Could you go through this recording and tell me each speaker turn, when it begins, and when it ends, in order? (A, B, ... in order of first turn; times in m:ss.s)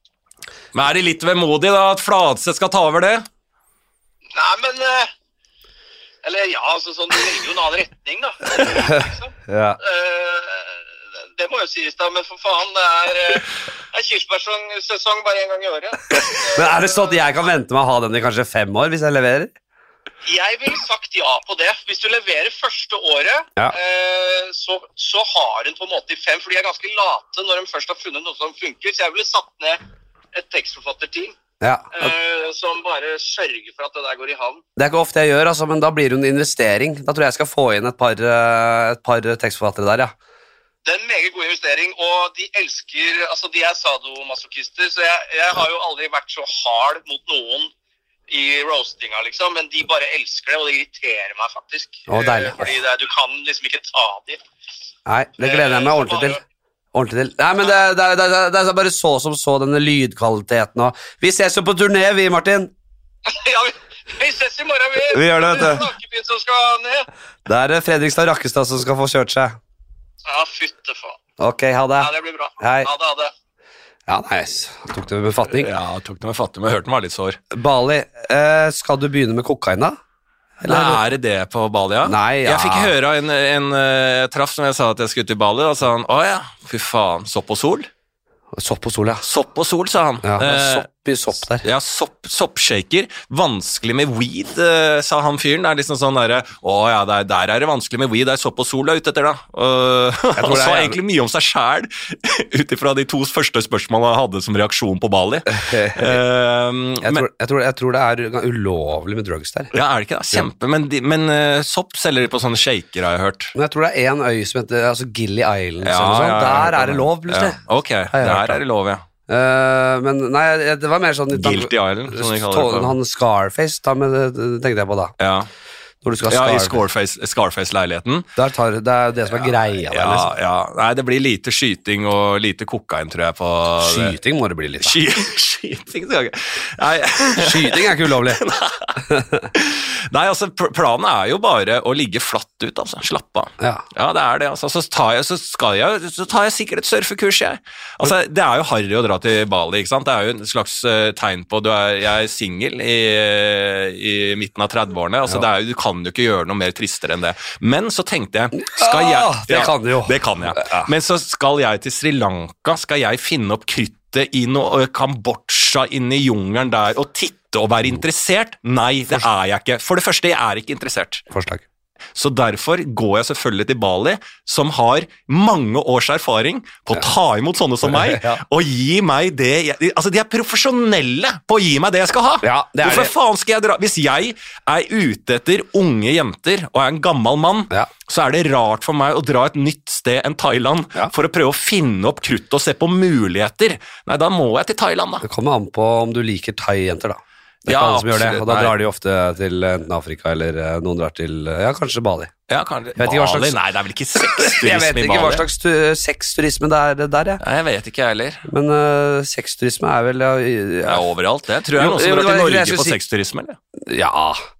0:00.7-0:03.3 A
0:04.3-0:05.1 B
0:06.2-0:10.8 B
0:08.8-0:09.8 C
0:11.4-0:17.2 B
0:16.6-0:19.5 C
0:20.3-0:29.8 B
0:30.3-0:31.4 B
0:31.6-0:32.1 C
0:32.0-0:34.6 B
0:34.8-0:40.1 C
0:40.8-0:47.7 B
0:48.3-0:54.4 B
0:52.1-0:52.7 C
0:55.1-0:56.4 C
0:55.4-0:56.4 B
0:56.9-1:02.7 C
1:03.3-1:07.1 B
1:05.1-1:05.9 C
1:07.5-1:09.6 C
1:10.3-1:11.2 B
1:11.4-1:12.9 C
1:12.0-1:13.3 B
1:14.1-1:15.7 C
1:15.5-1:17.4 A
1:17.5-1:20.0 C
1:20.6-1:21.0 C
1:20.7-1:27.9 A
1:22.0-1:22.9 C
1:28.5-1:29.2 C
1:29.2-1:30.9 A
1:30.2-1:31.6 C
1:31.6-1:47.2 A
1:40.4-1:41.0 C
1:45.5-1:46.2 C
1:47.0-1:49.7 C
1:49.7-1:53.5 A
1:53.6-1:57.6 C
1:55.8-1:59.0 A
1:58.1-1:58.6 C
1:59.3-2:05.1 C
2:01.3-2:03.0 A
2:05.2-2:05.5 A
2:06.0-2:06.8 C
2:06.3-2:08.3 A
2:08.4-2:10.3 C
2:09.4-2:14.2 A
2:13.8-2:15.0 C
2:14.8-2:19.0 A
2:17.4-2:18.4 C
2:19.1-2:19.5 C
2:19.5-2:51.2 A
2:23.6-2:23.8 C
2:38.6-2:40.9 C
2:51.3-2:51.6 C
2:52.2-3:15.2 A
2:57.9-2:58.4 C
3:02.4-3:03.1 C
3:15.2-3:22.3 C
3:17.7-3:18.8 A
3:22.5-3:25.5 A
3:23.0-3:23.6 C
3:24.2-3:27.4 C
3:27.4-3:28.4 A
3:28.5-3:31.0 C
3:30.9-3:33.6 A
3:31.8-3:33.0 C
3:33.8-3:34.5 C